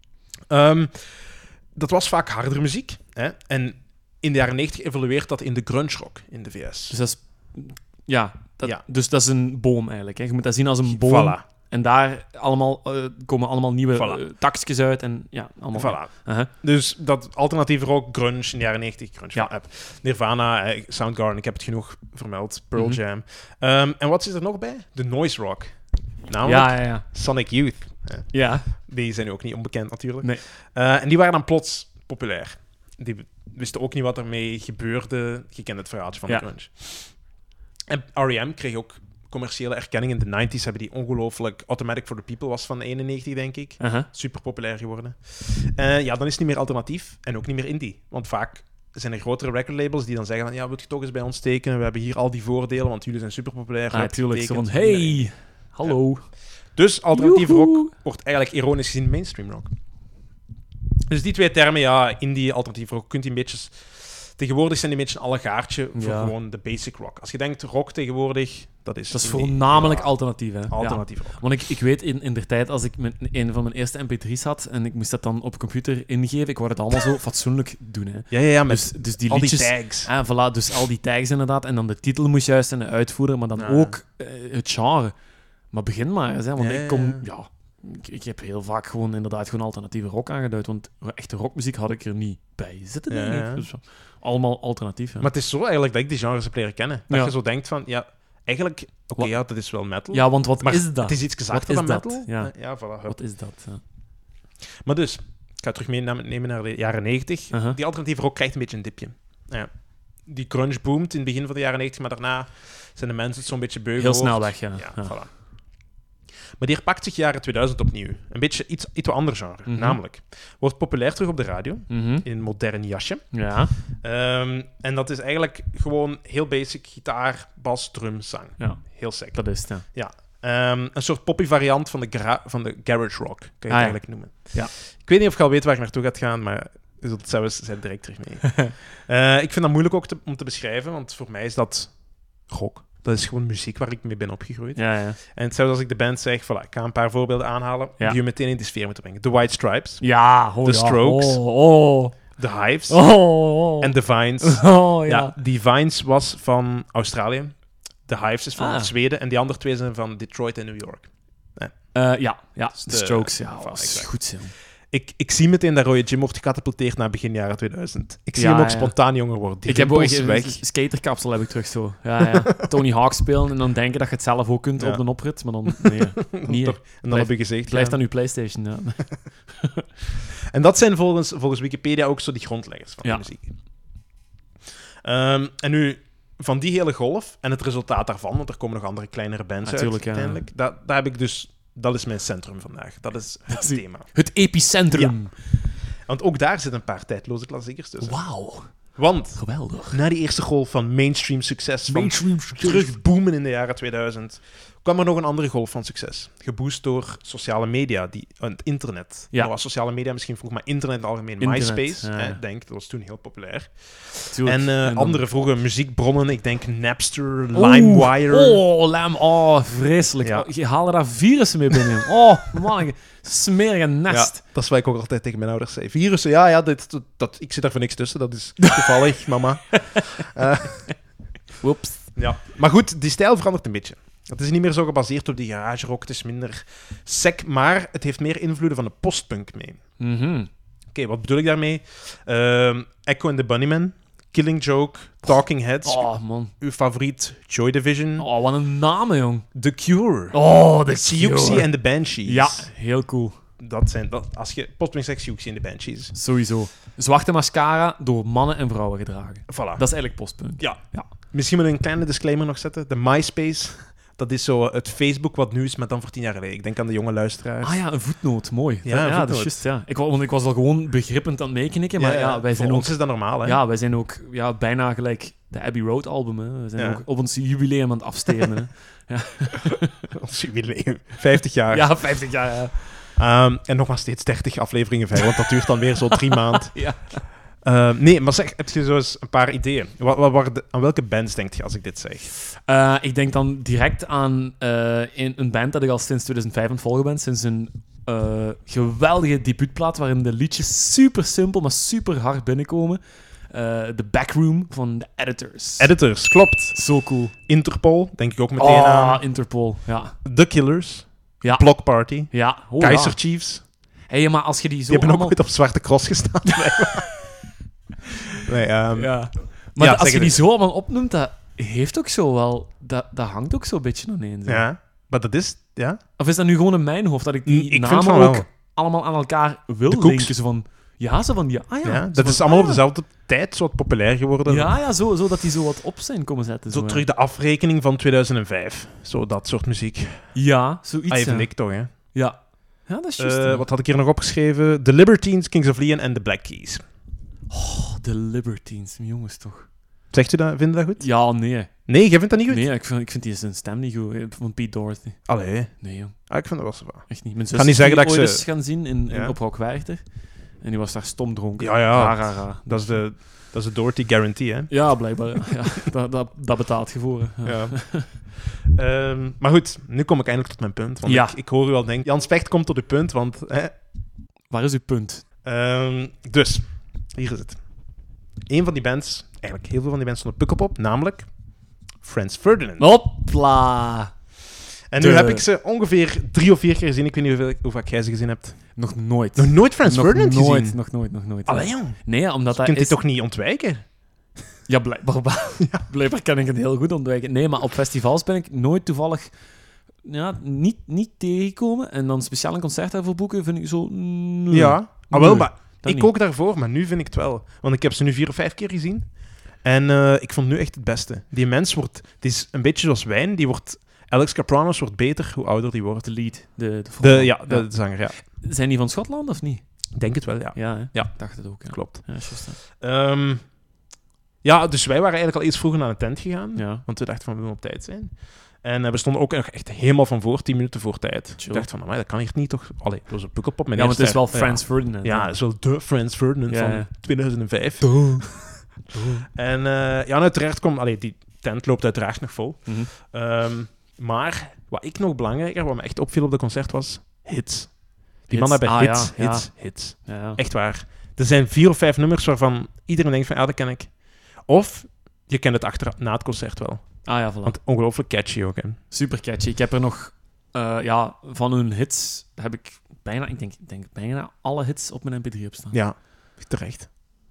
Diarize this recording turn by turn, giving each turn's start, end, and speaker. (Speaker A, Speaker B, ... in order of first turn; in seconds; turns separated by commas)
Speaker A: 0.5-7.0, Speaker B: 6.9-16.5, Speaker A: 10.9-11.4, Speaker A: 13.9-14.2, Speaker A: 15.7-25.7, Speaker A: 26.3-37.2, Speaker B: 26.4-27.0, Speaker B: 28.3-28.7, Speaker A: 37.9-55.3, Speaker B: 43.8-44.1, Speaker B: 53.9-56.3, Speaker A: 56.7-59.7, Speaker B: 57.1-57.9, Speaker A: 61.1-71.4, Speaker B: 65.9-66.3, Speaker B: 69.1-85.1, Speaker A: 78.3-80.1, Speaker A: 83.6-84.0, Speaker B: 85.7-95.3, Speaker A: 86.6-87.2, Speaker A: 93.1-93.7, Speaker A: 95.2-103.2, Speaker B: 100.1-103.8, Speaker A: 104.8-109.7, Speaker B: 107.5-107.8, Speaker A: 110.2-115.3, Speaker B: 114.0-115.2, Speaker A: 116.6-123.4, Speaker B: 119.7-120.0, Speaker B: 121.9-122.2, Speaker B: 123.3-123.7, Speaker A: 123.9-151.4, Speaker B: 128.6-129.8, Speaker B: 133.7-134.7, Speaker B: 144.8-145.2, Speaker B: 150.0-152.2, Speaker A: 152.4-153.1, Speaker B: 152.9-155.3, Speaker A: 153.6-161.7, Speaker B: 158.6-158.9, Speaker B: 161.9-164.5, Speaker A: 162.8-164.2, Speaker A: 164.9-170.6, Speaker B: 168.3-169.0, Speaker B: 169.6-179.7, Speaker A: 174.8-178.0, Speaker A: 180.5-183.5, Speaker A: 185.0-194.1, Speaker B: 189.6-190.4, Speaker B: 193.5-195.3, Speaker A: 194.9-195.2, Speaker A: 196.1-198.2, Speaker B: 198.0-200.0, Speaker A: 198.9-218.6, Speaker B: 201.9-202.9, Speaker B: 211.4-212.4, Speaker B: 214.3-215.2, Speaker B: 217.5-224.4, Speaker A: 220.2-220.5, Speaker A: 224.1-230.9, Speaker B: 231.6-232.2, Speaker A: 232.2-239.8, Speaker B: 240.0-240.5, Speaker A: 240.9-248.3, Speaker B: 245.8-246.5, Speaker B: 248.2-249.4, Speaker A: 249.5-250.4, Speaker B: 250.3-251.7, Speaker A: 250.9-252.7, Speaker B: 252.2-253.4, Speaker A: 253.6-256.1, Speaker B: 256.1-261.1, Speaker A: 259.5-267.8, Speaker B: 267.6-280.1, Speaker A: 268.8-269.6, Speaker A: 272.0-273.6, Speaker A: 276.8-277.0, Speaker A: 280.1-282.1, Speaker B: 281.7-283.0, Speaker A: 283.1-286.9, Speaker B: 286.3-287.2, Speaker A: 287.6-292.3, Speaker B: 292.6-306.1, Speaker A: 305.8-309.6, Speaker B: 306.7-307.3, Speaker B: 308.6-310.2, Speaker A: 310.2-313.6, Speaker B: 311.4-313.2, Speaker B: 314.1-315.4, Speaker A: 314.9-317.3, Speaker A: 318.4-320.4, Speaker B: 318.9-324.7, Speaker A: 324.5-326.0, Speaker B: 326.2-332.8, Speaker A: 327.4-328.4, Speaker A: 329.9-330.3, Speaker A: 331.8-334.7, Speaker B: 334.4-337.0, Speaker A: 336.7-340.3, Speaker B: 340.3-343.6, Speaker A: 341.1-341.9, Speaker A: 343.2-346.8, Speaker B: 347.5-349.7, Speaker A: 350.1-352.7, Speaker B: 351.0-351.9, Speaker B: 352.5-355.3, Speaker A: 355.2-359.4, Speaker B: 355.8-356.4, Speaker B: 357.1-363.0, Speaker A: 361.6-365.6, Speaker B: 364.7-368.1, Speaker A: 367.4-373.7, Speaker B: 371.0-371.4, Speaker B: 374.5-375.2, Speaker A: 375.4-377.6, Speaker A: 378.5-381.3, Speaker A: 382.0-382.9, Speaker B: 382.8-384.1, Speaker A: 384.9-388.8, Speaker B: 385.0-385.4, Speaker B: 388.8-393.0, Speaker A: 389.3-390.8, Speaker A: 391.4-394.4, Speaker B: 394.7-399.4, Speaker B: 400.0-406.1, Speaker A: 404.5-416.2, Speaker B: 416.0-419.6, Speaker A: 417.0-418.1, Speaker A: 419.9-423.6, Speaker B: 420.5-422.6, Speaker A: 424.4-438.7, Speaker B: 426.6-426.8, Speaker B: 431.4-431.6, Speaker B: 433.7-435.3, Speaker B: 436.5-436.9, Speaker B: 437.8-439.2, Speaker A: 439.3-458.8, Speaker B: 448.3-450.4, Speaker B: 457.0-457.6, Speaker B: 458.9-465.8, Speaker A: 465.7-467.2